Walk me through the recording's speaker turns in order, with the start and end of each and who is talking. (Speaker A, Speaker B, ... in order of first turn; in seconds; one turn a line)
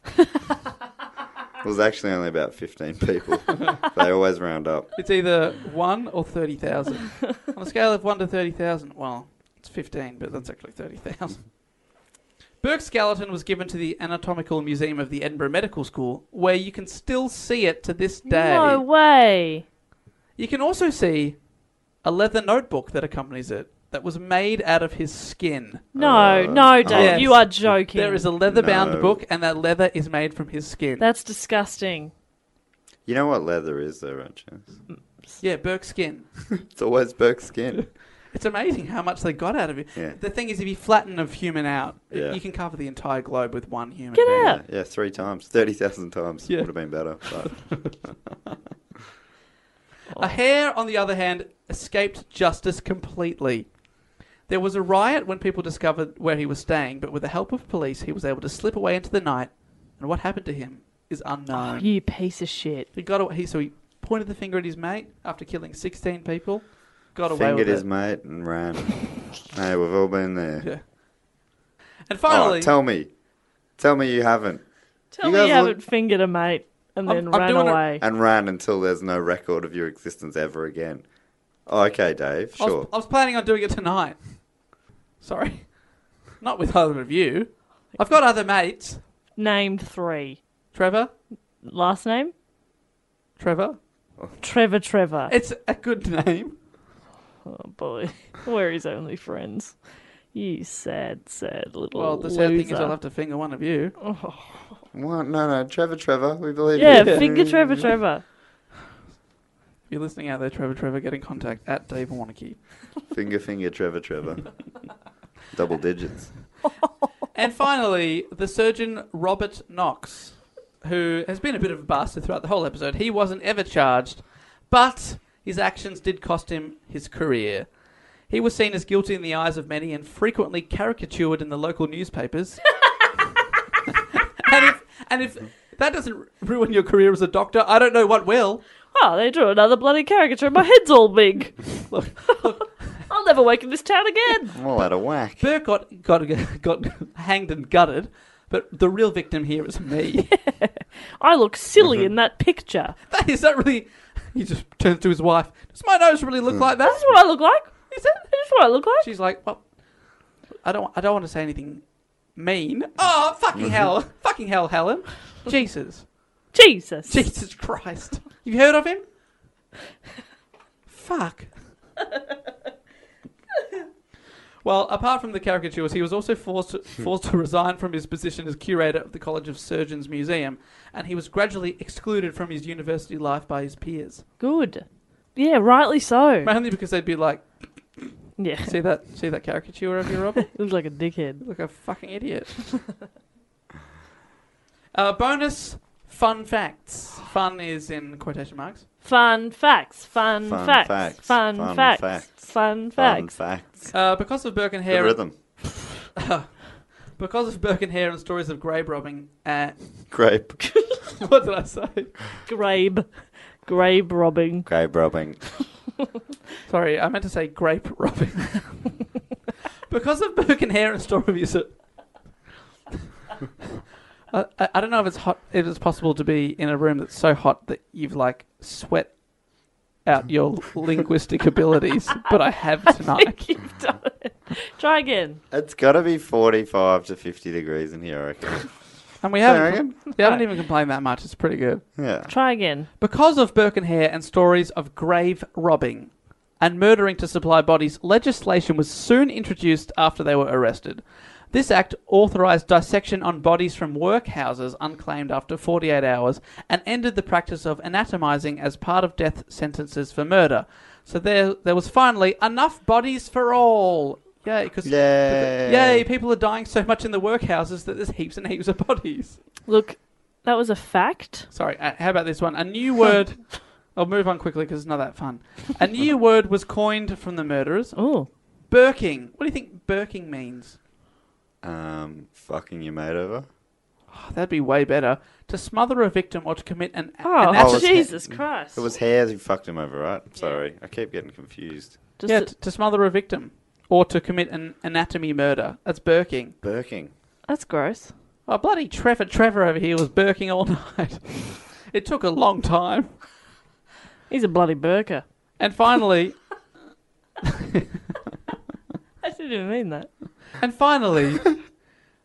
Speaker A: 1.6-4.9
Speaker B: 5.0-11.5
Speaker B: 12.6-18.8
Speaker C: 18.2-19.6
Speaker B: 20.4-21.4
Speaker B: 22.0-25.9
Speaker C: 25.9-28.3
Speaker A: 25.9-27.6
Speaker B: 26.8-31.0
Speaker A: 28.4-29.2
Speaker C: 31.0-32.1
Speaker A: 33.0-34.8
Speaker B: 35.4-36.3
Speaker A: 36.5-37.8
Speaker B: 37.7-44.5
Speaker A: 42.1-42.4
Speaker C: 44.1-44.6
Speaker A: 44.2-47.9
Speaker B: 47.2-48.0
Speaker B: 50.1-53.7
Speaker B: 54.5-61.9
Speaker C: 61.5-62.9
Speaker B: 62.9-67.8
Speaker A: 67.3-70.7
Speaker B: 72.1-72.7
Speaker A: 72.3-73.1
Speaker A: 73.8-74.6
Speaker C: 75.1-78.0
Speaker A: 75.2-75.8
Speaker B: 77.0-77.8
Speaker A: 78.0-81.0
Speaker A: 81.7-82.9
Speaker B: 82.6-84.2
Speaker B: 85.2-85.8
Speaker B: 86.4-89.0
Speaker C: 89.4-90.4
Speaker B: 90.7-91.1
Speaker C: 91.6-92.3
Speaker B: 93.4-93.8
Speaker C: 94.4-95.3
Speaker B: 95.3-96.5
Speaker C: 97.5-99.8
Speaker C: 100.3-103.0
Speaker B: 101.9-104.0
Speaker C: 104.0-104.6
Speaker A: 104.9-107.9
Speaker C: 106.7-108.2
Speaker B: 106.8-107.4
Speaker B: 109.9-112.6
Speaker A: 113.1-114.5
Speaker A: 115.5-116.3
Speaker B: 117.3-127.7
Speaker B: 128.3-132.8
Speaker B: 134.4-138.6
Speaker C: 138.9-141.6
Speaker B: 141.9-142.9
Speaker C: 143.1-144.5
Speaker A: 144.5-145.5
Speaker B: 145.4-150.4
Speaker C: 150.4-152.9
Speaker B: 153.1-157.1
Speaker C: 156.9-157.7
Speaker B: 157.9-158.2
Speaker C: 158.3-159.1
Speaker B: 159.0-159.6
Speaker B: 160.6-161.8
Speaker B: 162.3-166.1
Speaker C: 166.5-167.2
Speaker B: 167.1-169.0
Speaker B: 170.9-171.5
Speaker B: 174.6-184.2
Speaker C: 184.4-186.5
Speaker B: 186.4-190.5
Speaker C: 188.4-188.7
Speaker C: 190.4-191.4
Speaker B: 191.4-192.7
Speaker B: 194.9-198.8
Speaker C: 199.0-203.3
Speaker A: 200.4-203.9
Speaker B: 203.9-205.4
Speaker A: 204.9-205.3
Speaker B: 206.1-206.6
Speaker B: 207.2-209.8
Speaker A: 210.1-210.6
Speaker B: 211.2-212.2
Speaker C: 212.4-214.7
Speaker A: 214.7-215.4
Speaker B: 216.7-219.0
Speaker B: 219.9-221.8
Speaker B: 224.3-229.2
Speaker B: 230.0-233.4
Speaker C: 233.1-235.4
Speaker A: 235.5-238.8
Speaker B: 239.2-241.8
Speaker A: 239.4-240.0
Speaker A: 241.9-242.3
Speaker C: 242.3-242.9
Speaker B: 243.0-269.4
Speaker A: 264.8-266.1
Speaker C: 269.7-271.5
Speaker B: 271.5-278.0
Speaker C: 277.9-278.3
Speaker B: 278.7-280.8
Speaker A: 281.6-283.5
Speaker B: 284.1-288.1
Speaker C: 287.2-288.9
Speaker A: 287.5-291.9
Speaker C: 292.2-292.5
Speaker B: 292.2-296.6
Speaker A: 296.6-297.1
Speaker C: 297.5-298.1
Speaker B: 298.5-303.1
Speaker C: 304.3-305.2
Speaker B: 305.6-306.4
Speaker B: 307.4-307.8
Speaker C: 309.2-310.1
Speaker B: 310.6-311.6